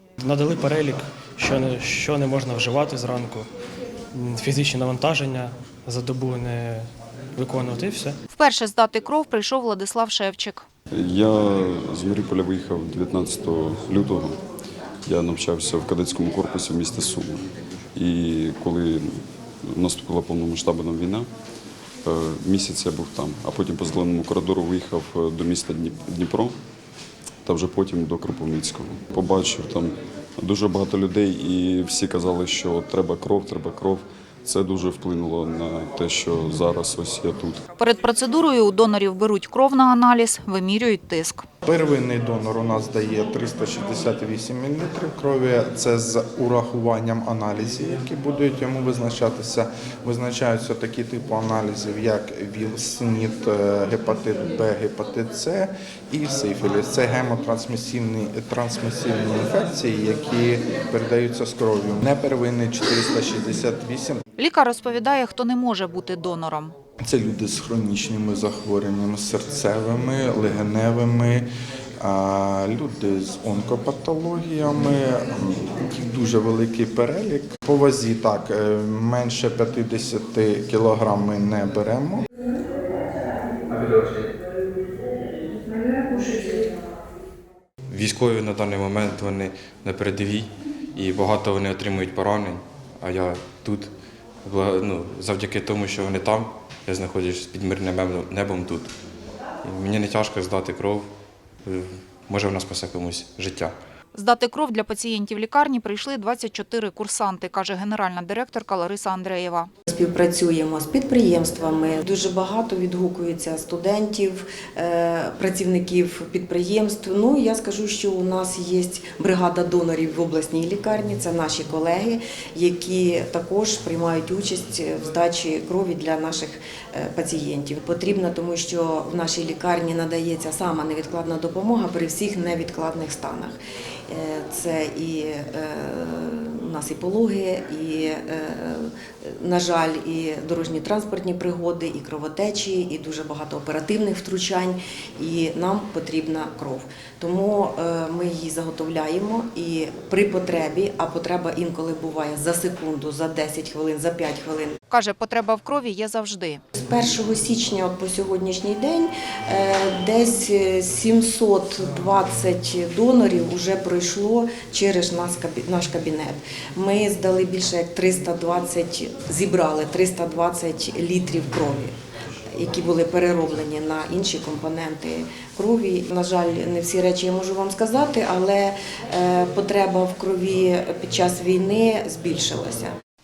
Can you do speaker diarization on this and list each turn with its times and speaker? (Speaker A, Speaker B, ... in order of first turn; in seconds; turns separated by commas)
Speaker A: 0.2-3.5, Speaker A: 4.1-8.2, Speaker B: 8.3-10.6, Speaker C: 10.9-14.4, Speaker C: 15.0-21.3, Speaker C: 22.0-26.6, Speaker C: 27.4-37.6, Speaker B: 37.8-41.4, Speaker D: 41.6-64.2, Speaker B: 64.4-66.7, Speaker D: 67.0-71.5, Speaker D: 72.0-82.3, Speaker E: 87.9-93.9, Speaker E: 94.4-98.9, Speaker E: 99.6-101.1, Speaker E: 101.6-103.7, Speaker B: 104.1-109.7, Speaker F: 109.9-133.6, Speaker F: 134.1-154.8, Speaker B: 154.9-156.6, Speaker F: 156.8-171.9, Speaker F: 172.5-182.9